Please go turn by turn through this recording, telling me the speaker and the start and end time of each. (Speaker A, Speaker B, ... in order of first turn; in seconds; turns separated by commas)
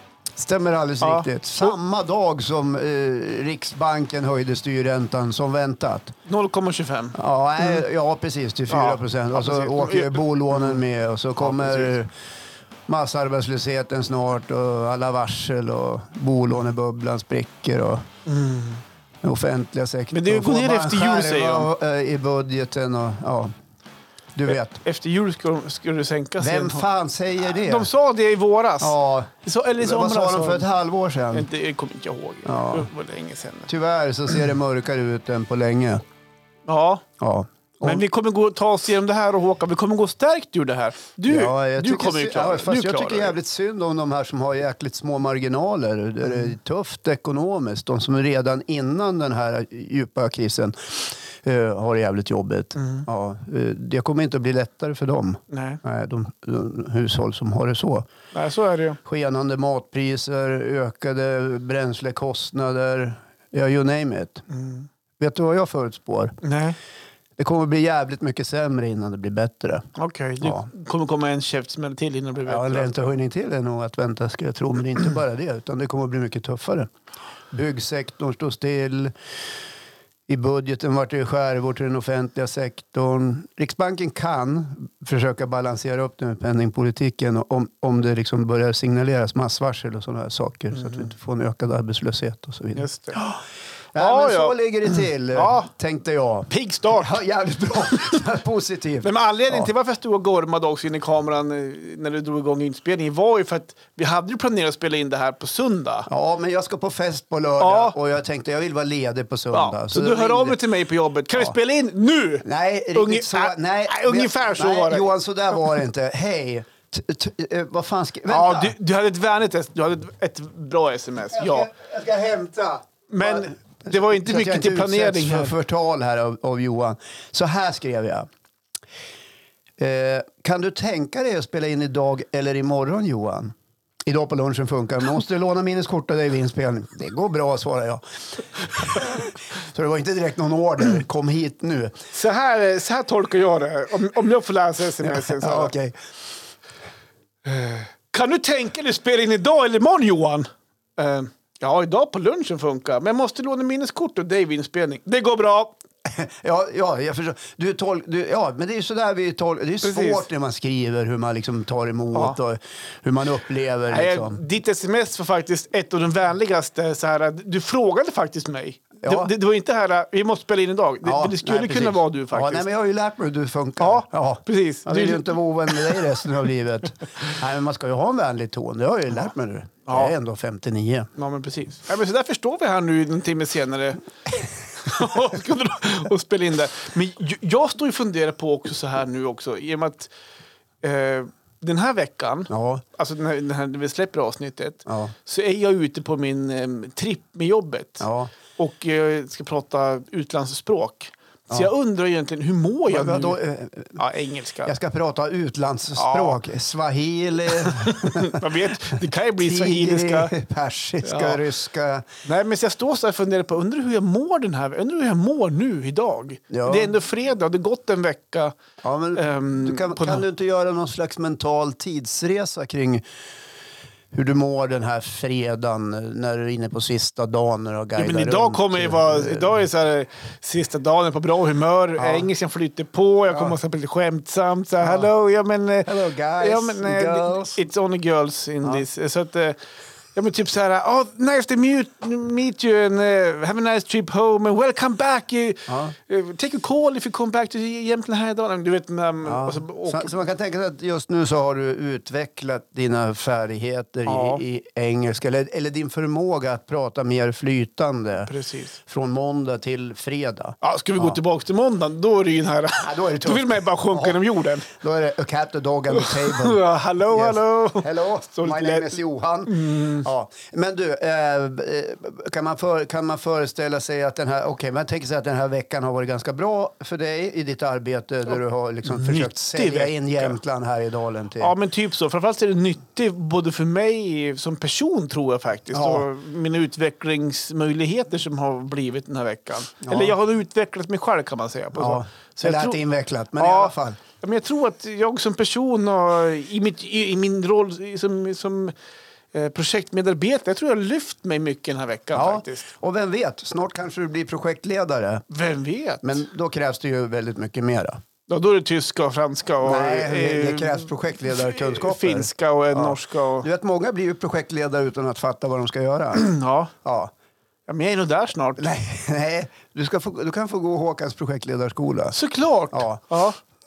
Speaker A: 0.3-6.1, Speaker B: 1.0-1.7, Speaker B: 6.2-7.8, Speaker A: 7.1-12.1, Speaker B: 8.7-10.8, Speaker B: 11.4-11.9, Speaker A: 12.9-18.1, Speaker B: 18.2-18.8, Speaker A: 19.2-23.5, Speaker B: 20.1-21.7, Speaker A: 24.3-24.8, Speaker B: 24.5-26.9, Speaker A: 26.4-27.9, Speaker B: 27.4-30.6, Speaker A: 28.8-31.5, Speaker B: 31.3-33.7, Speaker A: 32.5-32.9, Speaker A: 33.7-36.0, Speaker B: 36.7-37.0, Speaker A: 37.2-38.0, Speaker B: 37.8-43.4, Speaker A: 41.3-58.1, Speaker B: 52.8-53.0, Speaker B: 55.5-55.8, Speaker B: 58.3-59.0, Speaker A: 59.0-64.4, Speaker B: 64.5-64.9, Speaker A: 65.2-66.3, Speaker B: 66.4-66.8, Speaker A: 67.4-69.8, Speaker B: 70.0-73.1, Speaker A: 70.4-70.7, Speaker A: 72.5-76.9, Speaker A: 77.5-79.1, Speaker A: 80.3-93.4, Speaker B: 90.7-91.0, Speaker B: 92.8-93.3, Speaker A: 93.9-99.7, Speaker B: 93.9-94.5, Speaker B: 95.3-95.7, Speaker B: 96.5-97.2, Speaker B: 99.0-106.1, Speaker A: 106.1-110.6, Speaker B: 107.6-108.0, Speaker B: 109.5-115.1, Speaker A: 112.4-118.7, Speaker B: 118.3-121.7, Speaker A: 121.3-128.3, Speaker B: 123.1-125.5, Speaker A: 129.8-133.5, Speaker A: 134.1-141.9, Speaker B: 142.1-145.7, Speaker A: 145.0-145.9, Speaker B: 147.4-155.7, Speaker A: 156.1-164.4, Speaker B: 159.8-160.2, Speaker B: 163.9-172.6, Speaker A: 169.0-169.3, Speaker A: 171.0-181.1, Speaker B: 173.8-176.0, Speaker B: 179.9-180.1, Speaker B: 181.2-184.0, Speaker B: 184.8-190.1, Speaker B: 190.8-203.4, Speaker A: 192.5-192.8, Speaker A: 194.8-195.1, Speaker A: 198.0-198.3, Speaker A: 202.9-204.0, Speaker B: 203.9-204.7, Speaker A: 204.7-208.4, Speaker B: 205.9-206.4, Speaker B: 207.5-210.3, Speaker A: 209.4-212.1, Speaker B: 211.0-211.4, Speaker B: 212.2-218.6, Speaker A: 216.5-216.9, Speaker A: 218.8-223.0, Speaker B: 219.1-220.2, Speaker A: 224.1-229.6, Speaker B: 228.0-239.6, Speaker A: 232.0-232.3, Speaker A: 233.3-233.6, Speaker A: 234.8-235.1, Speaker A: 235.8-237.6, Speaker B: 240.1-250.1, Speaker A: 245.7-245.9, Speaker A: 249.2-261.2, Speaker B: 254.1-254.4, Speaker B: 258.3-258.8, Speaker B: 260.6-264.7, Speaker A: 262.7-281.5, Speaker B: 265.9-268.9, Speaker B: 269.5-270.1, Speaker B: 278.8-280.4, Speaker B: 281.4-292.8, Speaker A: 285.7-286.1, Speaker A: 289.8-290.1, Speaker A: 291.7-294.0, Speaker B: 293.4-298.7, Speaker B: 299.3-302.7, Speaker A: 302.1-305.2, Speaker B: 305.3-306.2, Speaker A: 306.0-308.0, Speaker B: 308.3-313.5, Speaker A: 309.6-316.2, Speaker B: 316.1-316.7, Speaker A: 316.8-317.1, Speaker B: 317.7-318.6, Speaker A: 318.6-322.2, Speaker B: 322.1-323.4, Speaker A: 322.7-323.0